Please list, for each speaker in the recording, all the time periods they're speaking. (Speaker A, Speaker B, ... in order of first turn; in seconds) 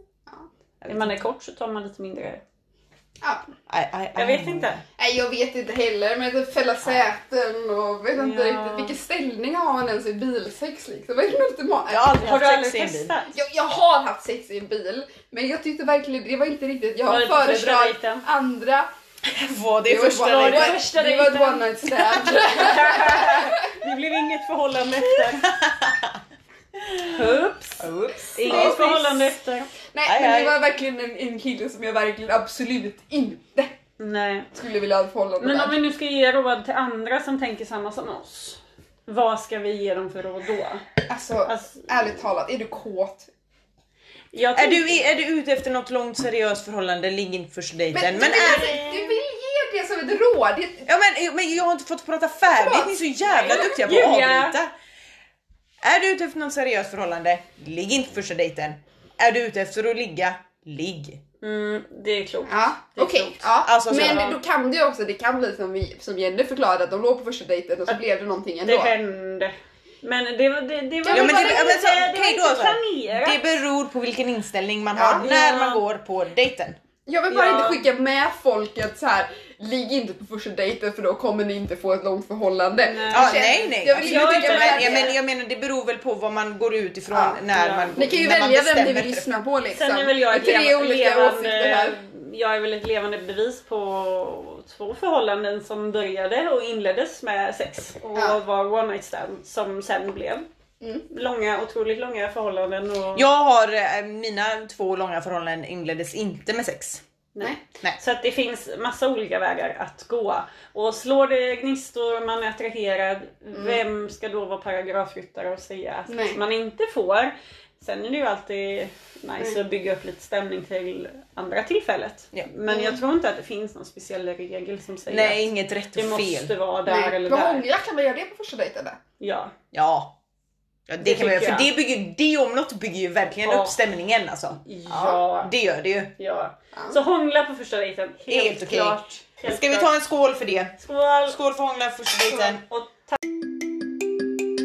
Speaker A: 0.8-1.2, 3.7-4.8, 11.9-13.1, 19.2-20.8, 25.1-26.2, 26.8-27.1, 27.8-28.8, 30.1-30.6, 44.5-48.9, 50.9-54.7, 55.8-61.2, 63.6-64.2, 71.1-76.8, 83.1-89.3, 103.1-107.0, 125.1-126.5, 129.7-130.2, 130.9-136.1, 138.3-142.6
Speaker B: 0.8-2.4, 4.1-4.8, 8.2-8.9, 12.1-13.4, 17.1-18.2, 20.2-25.5, 27.0-29.7, 34.0-34.5, 35.4-40.8, 41.5-42.1, 44.3-45.0, 48.2-49.1, 53.3-54.5, 61.4-64.4, 68.6-73.4, 75.2-75.8, 77.3-77.8, 82.8-85.1, 87.5-88.0, 89.7-100.5, 101.1-103.2, 107.3-127.7, 129.2-129.5, 131.0-131.7, 133.4-133.8, 134.6-135.5, 136.2-139.9, 140.8-141.4, 142.2-143.1
Speaker C: 5.0-12.1, 13.3-18.9, 19.8-23.7, 28.4-29.4, 29.9-33.7, 34.5-35.8, 41.1-43.3, 47.9-50.9, 52.5-53.7, 62.5-68.9, 71.0-71.9, 74.9-75.3, 77.0-85.1, 87.1-87.4, 87.9-92.0, 113.5-113.8, 116.1-116.4, 122.7-123.0, 126.8-129.0